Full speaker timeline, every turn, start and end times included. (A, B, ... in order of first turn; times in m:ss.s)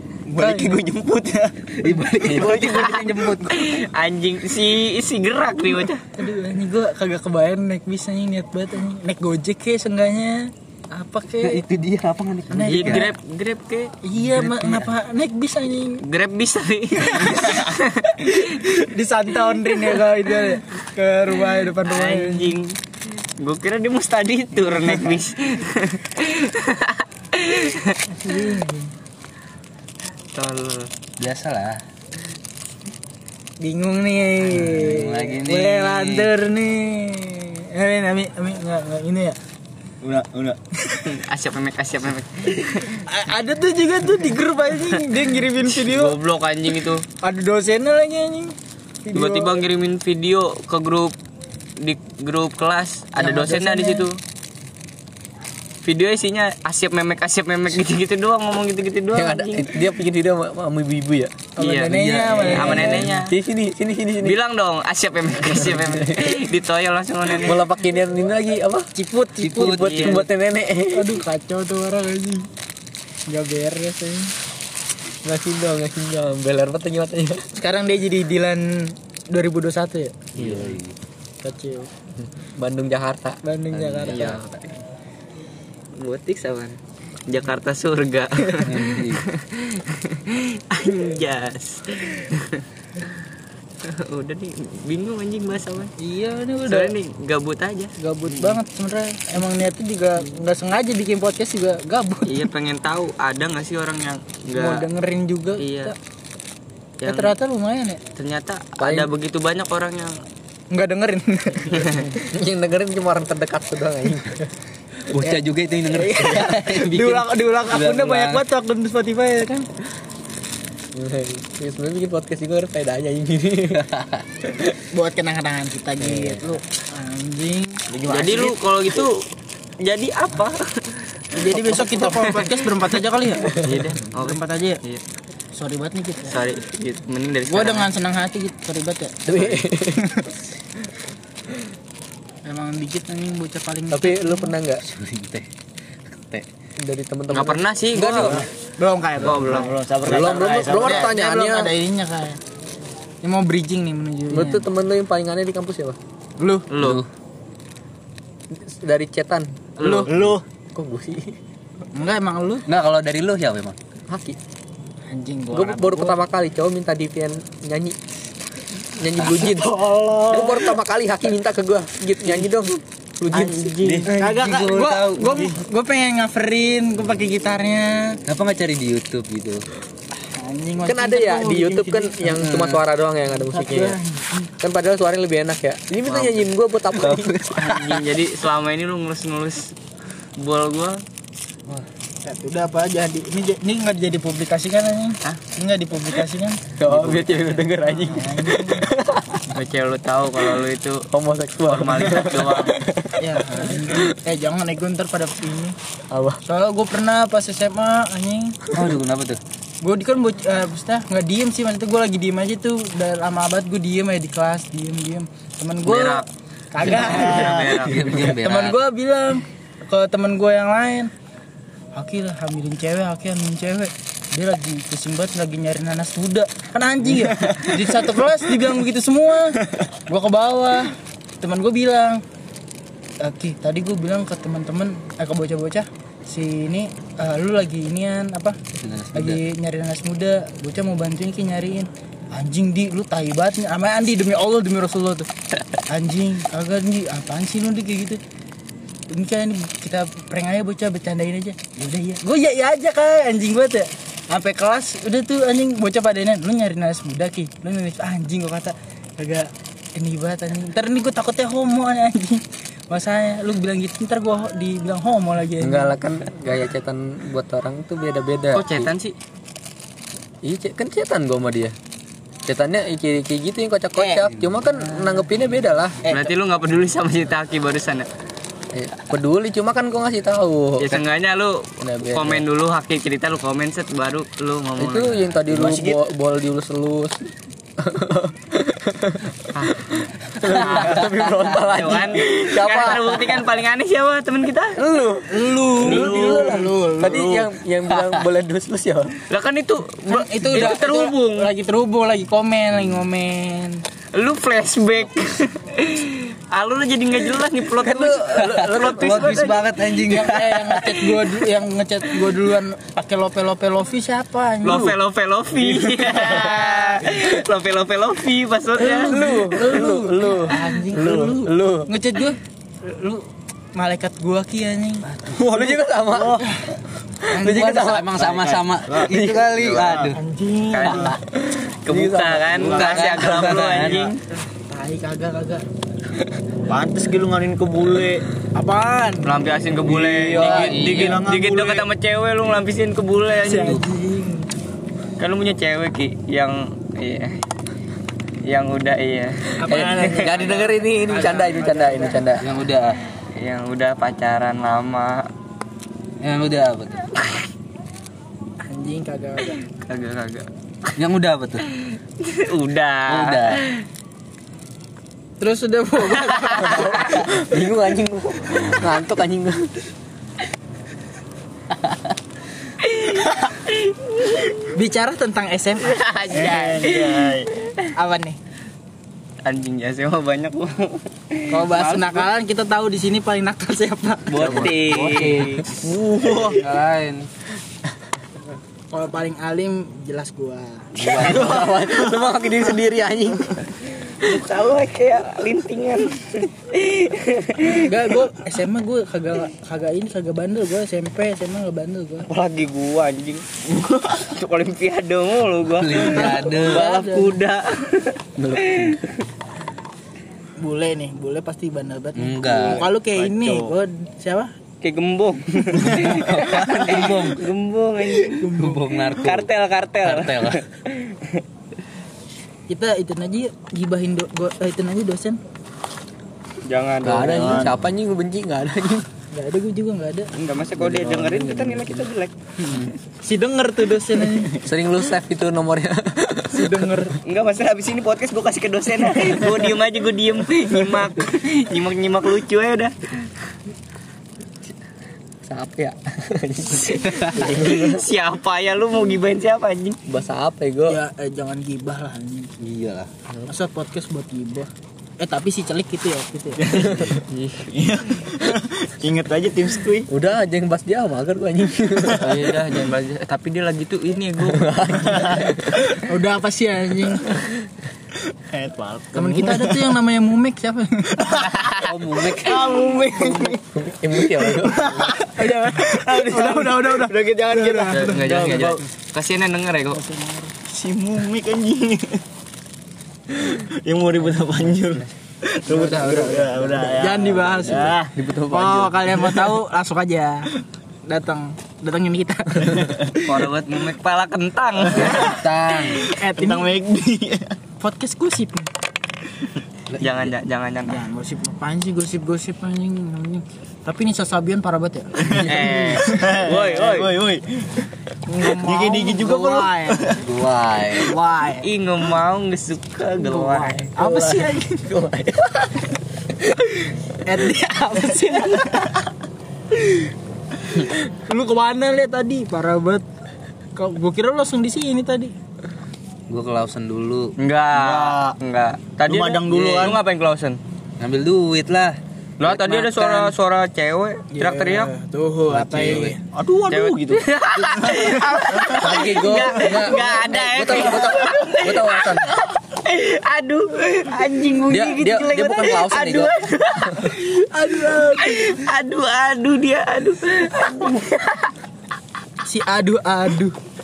0:00.3-0:03.0 A
0:00.4-0:00.8 B
0:01.8-0:03.5 C
0:02.4-0:03.4 B
0:02.4-0:06.0 D
0:06.2-0:11.7 B
0:11.4-0:13.1 C
0:12.5-0:13.1 B
0:12.7-0:13.9 D
0:14.0-0:16.0 B
0:14.2-0:14.9 C
0:16.0-0:18.5 D
0:17.2-0:17.6 B
0:18.3-0:22.6 B
0:21.8-0:22.8 D
0:23.4-0:28.1 D
0:24.6-0:25.2 B
0:28.2-0:28.9 B
0:30.3-0:30.9 D
0:31.2-0:31.8 C
0:33.6-0:39.4 B
0:34.5-0:36.3 C
0:40.0-0:40.6 A
0:40.8-0:41.1 B
0:41.1-0:43.0 D
0:43.0-0:46.2 B
0:45.1-0:47.0 D
0:47.2-0:49.6 B
0:49.1-0:51.2 D
0:51.8-0:54.2 D
0:53.2-0:54.1 B
0:55.8-0:59.8 D
0:59.1-1:01.5 E
1:01.6-1:03.1 B
1:01.6-1:03.3 D
1:01.9-1:03.1 C
1:02.5-1:04.4 E
1:04.2-1:07.6 D
1:05.5-1:06.3 E
1:07.3-1:08.9 E
1:09.0-1:10.0 B
1:09.4-1:10.2 C
1:09.6-1:11.2 E
1:09.7-1:10.2 D
1:10.9-1:12.5 B
1:13.3-1:14.3 B
1:15.2-1:17.5 E
1:17.6-1:20.3 B
1:20.4-1:21.0 C
1:20.4-1:20.7 E
1:21.4-1:21.9 B
1:22.2-1:23.4 E
1:23.4-1:24.3 B
1:23.7-1:24.5 C
1:24.1-1:24.4 D
1:26.0-1:33.2 D
1:28.6-1:29.2 C
1:33.8-1:35.9 D
1:36.0-1:36.9 B
1:36.7-1:37.9 D
1:38.0-1:42.5 B
1:42.3-1:44.8 D
1:44.5-1:46.0 B
1:45.6-1:45.9 D
1:47.0-1:47.4 D
1:47.0-1:48.0 B
1:48.2-1:50.2 D
1:48.8-1:49.1 E
1:50.7-1:52.0 B
1:51.7-1:52.1 D
1:52.2-1:54.4 E
1:55.1-1:58.4 C
1:55.9-1:59.7 B
2:00.9-2:03.9 E
2:03.9-2:04.2 C
2:04.8-2:07.9 B
2:07.9-2:08.6 A
2:08.1-2:09.1 D
2:09.8-2:12.7 D
2:11.3-2:14.8 B
2:13.5-2:15.0 D
2:15.5-2:16.5 B
2:16.3-2:17.9 D
2:17.5-2:20.3 B
2:19.3-2:20.1 E
2:22.5-2:24.6 B
2:23.9-2:24.8 E
2:24.8-2:25.5 C
2:26.2-2:26.5 C
2:26.8-2:28.4 E
2:27.3-2:28.4 D
2:28.0-2:29.7 B
2:29.2-2:29.7 D
2:29.3-2:31.1 A
2:30.0-2:31.7 E
2:30.5-2:32.4 B
2:33.2-2:34.7 B
2:34.3-2:36.0 E
2:36.4-2:36.7 B
2:36.7-2:37.0 D
2:36.8-2:37.1 C
2:38.5-2:41.4 E
2:39.8-2:40.1 B
2:39.8-2:40.1 D
2:40.1-2:40.4 A
2:42.0-2:42.6 B
2:42.7-2:43.8 C
2:44.1-2:44.4 E
2:45.1-2:46.2 B
2:45.5-2:48.0 E
2:49.0-2:54.3 E
2:49.4-2:50.6 A
2:53.3-2:55.5 A
2:53.4-2:54.1 D
2:54.1-2:58.2 B
2:58.3-2:59.6 C
3:00.2-3:02.8 B
3:00.8-3:04.0 E
3:03.3-3:04.5 B
3:04.6-3:07.8 E
3:06.1-3:06.4 D
3:07.0-3:09.8 D
3:10.4-3:11.0 D
3:12.2-3:16.6 B
3:16.8-3:19.5 E
3:16.8-3:18.2 D
3:17.9-3:18.9 B
3:19.5-3:21.1 D
3:21.1-3:24.1 E
3:21.7-3:22.8 D
3:23.2-3:25.8 B
3:26.1-3:26.4 E
3:26.5-3:28.6 B
3:28.7-3:29.4 C
3:29.8-3:41.1 B
3:35.8-3:36.3 D
3:36.8-3:38.1 D
3:37.0-3:37.8 A
3:37.7-3:38.8 C
3:42.0-3:52.2 B
3:47.2-3:48.0 A
3:53.2-3:58.6 B
3:58.8-3:59.4 C
3:59.1-4:05.3 B
4:05.9-4:08.2 B
4:09.1-4:26.0 B
4:25.6-4:28.9 E
4:28.5-4:29.2 D
4:30.4-4:31.8 E
4:32.5-4:36.0 E
4:34.3-4:34.6 C
4:34.9-4:35.3 B
4:36.1-4:38.1 D
4:38.7-4:41.0 E
4:40.8-4:45.4 D
4:41.8-4:42.4 E
4:44.8-4:47.2 E
4:45.5-4:46.0 A
4:47.8-4:53.5 E
4:49.5-4:49.9 D
4:50.5-4:54.8 D
4:54.8-4:59.2 E
4:55.3-4:57.3 B
4:55.8-4:57.5 A
4:59.3-5:01.5 D
5:00.1-5:03.8 B
5:04.1-5:09.8 D
5:07.7-5:09.6 E
5:08.9-5:10.8 C
5:09.9-5:15.0 B
5:14.6-5:19.2 D
5:15.7-5:16.6 A
5:18.8-5:25.1 B
5:19.1-5:21.9 E
5:25.3-5:26.5 A
5:25.3-5:26.5 E
5:27.3-5:28.0 B
5:27.3-5:28.5 E
5:27.5-5:30.2 C
5:28.4-5:30.2 A
5:29.6-5:30.0 D
5:30.1-5:31.2 B
5:30.7-5:31.2 D
5:30.8-5:31.2 A
5:31.5-5:32.6 E
5:31.8-5:34.2 D
5:32.5-5:34.1 A
5:32.7-5:34.1 C
5:34.6-5:35.6 B
5:36.7-5:38.2 A
5:38.6-5:39.3 B
5:39.2-5:43.8 D
5:39.8-5:41.9 A
5:40.4-5:41.2 C
5:43.4-5:44.5 B
5:43.5-5:43.8 C
5:45.2-5:47.4 D
5:48.4-5:50.4 D
5:49.6-5:52.2 B
5:50.1-5:52.4 E
5:52.4-5:53.0 C
5:53.4-5:55.3 D
5:56.2-5:57.1 C
5:58.6-5:59.7 B
5:59.8-6:00.5 D
6:01.0-6:01.6 C
6:01.8-6:03.8 D
6:03.1-6:03.6 C
6:05.4-6:07.2 B
6:06.4-6:06.9 D
6:06.6-6:09.7 E
6:12.8-6:14.6 D
6:14.7-6:16.8 B
6:15.8-6:17.4 D
6:16.3-6:17.5 A
6:18.0-6:18.4 B
6:19.4-6:22.3 D
6:21.5-6:25.2 B
6:24.3-6:25.7 D
6:25.0-6:25.6 C
6:25.2-6:26.7 A
6:26.5-6:27.3 C
6:28.9-6:30.9 B
6:31.0-6:31.7 C
6:31.0-6:34.3 E
6:31.2-6:32.7 A
6:34.2-6:37.9 D
6:37.7-6:42.3 B
6:42.3-6:43.4 D
6:44.1-6:49.1 D
6:45.8-6:46.9 C
6:46.0-6:47.4 B
6:50.6-6:54.5 B
6:52.2-6:52.9 C
6:52.5-6:53.7 A
6:54.8-6:58.5 D
6:55.8-6:56.5 A
6:55.9-6:57.4 C
6:58.3-6:59.3 B
6:58.6-6:59.5 C
6:59.2-7:01.4 D
7:00.0-7:00.6 C
7:02.7-7:05.4 B
7:06.7-7:07.6 D
7:07.0-7:09.1 E
7:07.0-7:07.8 C
7:07.3-7:07.7 A
7:09.3-7:10.3 B
7:10.3-7:12.3 D
7:10.8-7:12.1 E
7:13.2-7:14.5 B
7:14.6-7:16.9 E
7:16.5-7:17.2 B
7:17.2-7:23.3 D
7:25.4-7:28.0 E
7:26.8-7:30.0 D
7:30.1-7:31.0 E
7:30.9-7:32.5 B
7:32.6-7:33.1 C
7:33.5-7:36.7 B
7:36.7-7:37.1 A
7:37.3-7:37.9 D
7:37.7-7:40.1 A
7:40.1-7:42.5 E
7:42.2-7:45.3 D
7:44.5-7:45.6 E
7:46.0-7:47.3 B
7:48.5-7:50.0 A
7:49.2-7:51.4 B
7:51.3-7:53.6 A
7:51.8-7:52.6 C
7:53.1-7:55.2 E
7:54.2-7:55.2 A
7:55.1-7:58.5 B
7:55.9-7:58.8 A
7:57.9-8:00.0 D
7:59.9-8:00.5 B
8:00.6-8:02.2 A
8:03.3-8:08.1 A
8:05.7-8:08.0 B
8:07.7-8:09.4 E
8:08.5-8:10.5 B
8:11.1-8:13.3 B
8:13.2-8:15.4 D
8:14.9-8:16.0 C
8:14.9-8:15.3 A
8:16.0-8:17.6 A
8:16.0-8:16.8 B
8:17.8-8:18.7 B
8:19.9-8:20.3 C
8:20.0-8:21.0 D
8:20.9-8:25.3 B
8:25.2-8:27.9 A
8:25.3-8:27.2 D
8:28.3-8:30.1 B
8:28.4-8:30.2 A
8:30.2-8:31.1 C
8:31.0-8:31.7 B
8:31.6-8:34.6 D
8:33.2-8:34.8 B
8:37.2-8:38.9 B
8:40.8-8:43.0 B
8:43.8-8:45.3 B
8:46.3-8:47.3 C
8:47.4-8:50.6 D
8:47.7-8:48.4 A
8:49.1-8:50.0 A
8:51.0-8:53.3 C
8:52.4-8:54.9 D
8:54.3-8:56.2 B
8:55.5-8:56.2 C
8:56.3-9:00.1 A
8:56.7-9:07.3 D
8:58.8-9:02.4 E
9:01.0-9:01.5 A
9:04.7-9:07.1 E
9:07.2-9:08.5 B
9:08.2-9:11.5 D
9:12.5-9:13.6 B